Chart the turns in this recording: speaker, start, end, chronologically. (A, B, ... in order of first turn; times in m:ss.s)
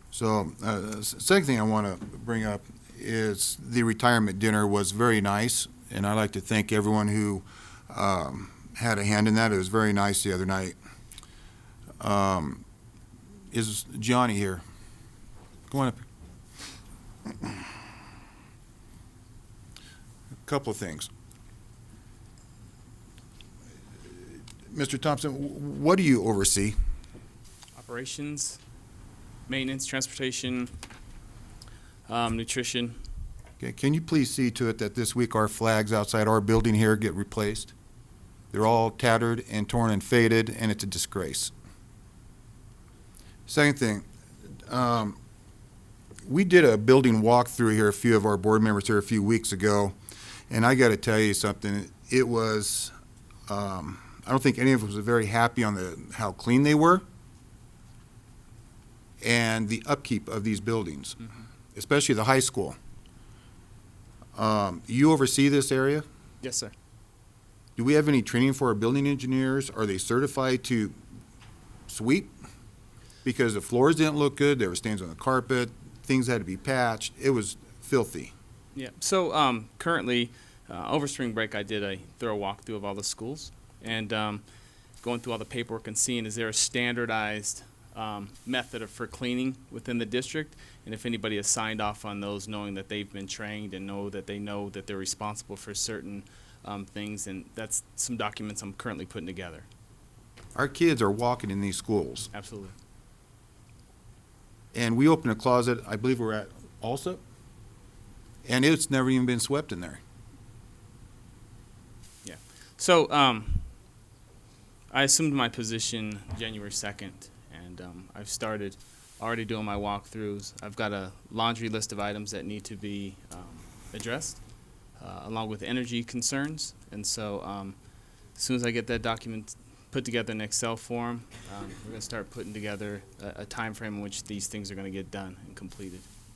0:00.1-0:10.8 A
0:12.0-0:12.6 A
0:13.5-0:14.6 A
0:15.7-0:16.0 A
0:20.4-0:21.1 A
0:24.1-0:26.8 A
0:27.8-0:28.6 B
0:29.5-0:30.7 B
0:32.1-0:33.0 B
0:33.6-0:37.7 A
0:38.5-0:41.5 A
0:43.5-0:44.1 A
0:44.7-0:45.2 A
0:46.3-0:50.0 A
0:50.5-0:52.9 A
0:53.5-0:57.0 A
0:59.2-1:01.2 A
1:01.7-1:02.8 A
1:04.4-1:06.0 A
1:06.4-1:06.7 B
1:07.8-1:11.0 A
1:11.9-1:12.3 A
1:13.2-1:18.3 A
1:18.8-1:24.4 B
1:25.0-1:39.7 B
1:40.6-1:42.3 A
1:42.3-1:42.8 B
1:44.7-1:47.2 A
1:48.4-1:50.0 A
1:52.2-1:53.7 B
1:54.9-2:04.4 B
2:05.0-2:07.8 B
2:08.4-2:16.1 B